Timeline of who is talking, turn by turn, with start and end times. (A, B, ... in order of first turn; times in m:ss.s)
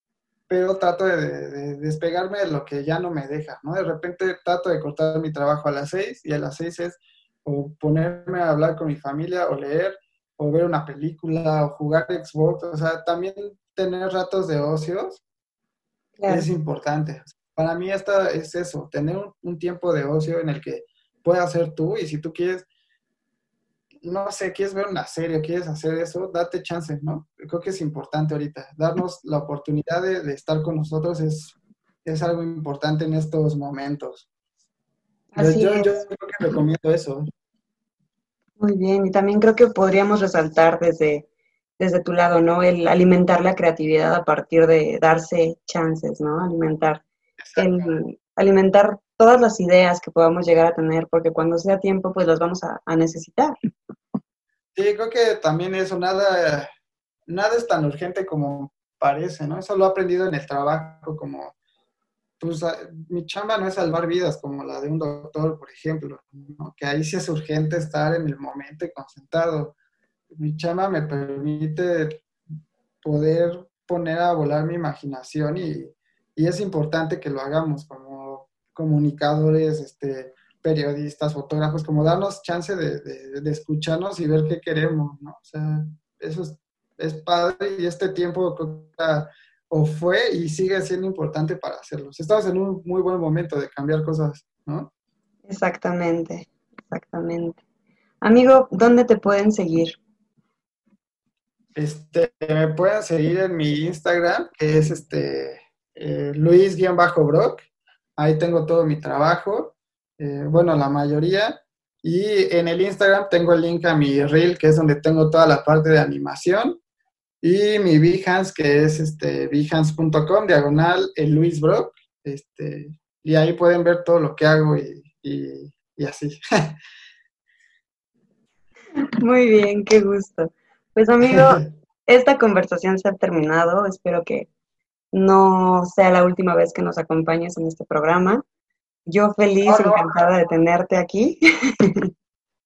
0:00.5-0:15.2 A
0:16.2-0:16.5 B
0:16.3-0:22.7 A
0:24.0-0:34.3 A
0:35.3-0:35.9 B
0:35.4-0:37.3 A
0:38.6-0:41.3 B
0:41.8-0:47.0 B
0:47.4-0:47.9 A
0:47.6-0:53.5 B
0:54.8-0:56.7 A
0:57.3-1:01.5 A
1:02.4-1:09.8 A
1:10.3-1:12.2 A
1:13.0-1:34.9 A
1:35.5-1:37.6 B
1:38.2-1:40.0 B
1:41.8-1:56.8 A
1:57.4-2:06.8 A
2:09.2-2:14.5 B
2:11.3-2:11.7 A
2:15.1-2:18.4 B
2:19.1-2:22.1 B
2:19.7-2:20.1 A